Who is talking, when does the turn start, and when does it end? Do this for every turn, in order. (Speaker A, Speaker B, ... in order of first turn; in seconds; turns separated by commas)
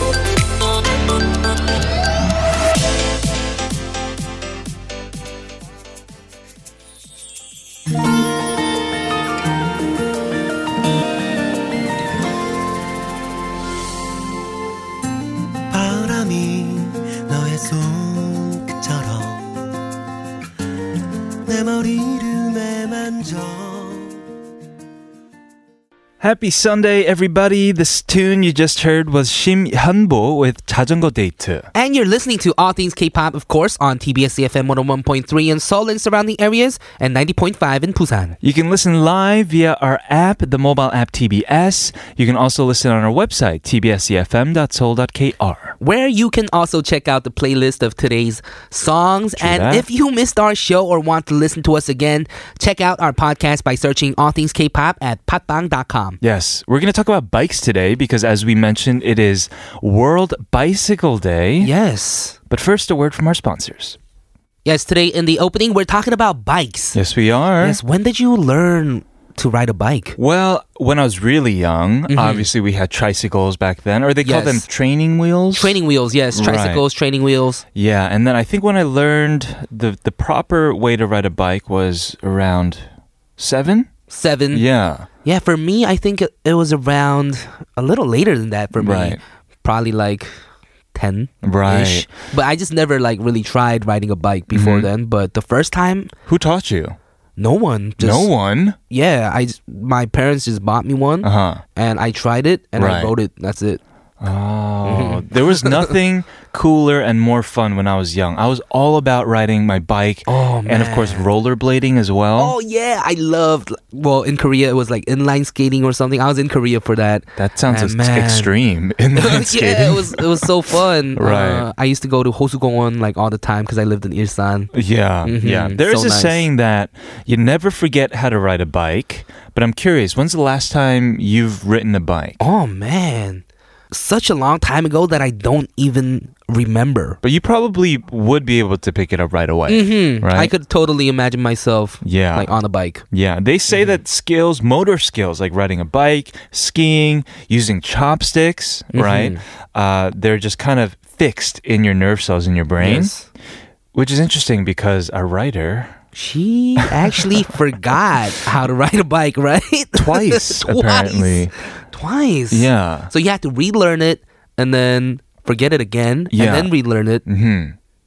Speaker A: 15.7-19.5, Speaker A: 21.4-24.1, Speaker B: 26.2-31.7, Speaker C: 31.7-38.4, Speaker B: 38.4-45.8, Speaker C: 45.8-56.2, Speaker B: 49.4-49.9, Speaker B: 56.2-61.7, Speaker C: 61.6-62.4, Speaker B: 62.5-64.0, Speaker C: 64.6-67.0, Speaker B: 66.9-67.8, Speaker C: 67.6-70.2, Speaker B: 70.2-75.8, Speaker C: 72.1-72.5, Speaker C: 74.2-74.7, Speaker C: 75.5-77.6, Speaker B: 76.3-76.8, Speaker B: 77.7-83.9, Speaker C: 84.1-84.6, Speaker B: 84.5-85.1, Speaker C: 85.2-90.3, Speaker B: 88.8-89.2, Speaker C: 90.9-96.1, Speaker B: 91.4-92.1, Speaker B: 94.5-94.9, Speaker B: 96.2-97.0, Speaker C: 97.4-98.3, Speaker B: 98.0-98.8, Speaker C: 98.9-103.8, Speaker B: 101.2-101.6, Speaker B: 102.8-103.1, Speaker B: 104.2-112.5, Speaker C: 104.8-105.9, Speaker C: 110.3-111.2, Speaker C: 112.4-118.5, Speaker B: 117.3-120.5, Speaker C: 119.1-124.7, Speaker B: 121.2-121.7, Speaker B: 124.7-132.4, Speaker C: 125.2-126.4, Speaker C: 132.4-137.2, Speaker B: 137.2-140.5, Speaker C: 139.7-143.0, Speaker B: 142.0-142.6, Speaker B: 143.1-153.1, Speaker C: 148.9-149.4, Speaker C: 152.8-153.3, Speaker B: 153.9-156.0, Speaker C: 156.1-167.2, Speaker B: 156.9-157.4, Speaker B: 159.9-161.5, Speaker B: 162.5-163.1, Speaker B: 166.3-166.7, Speaker B: 167.2-167.8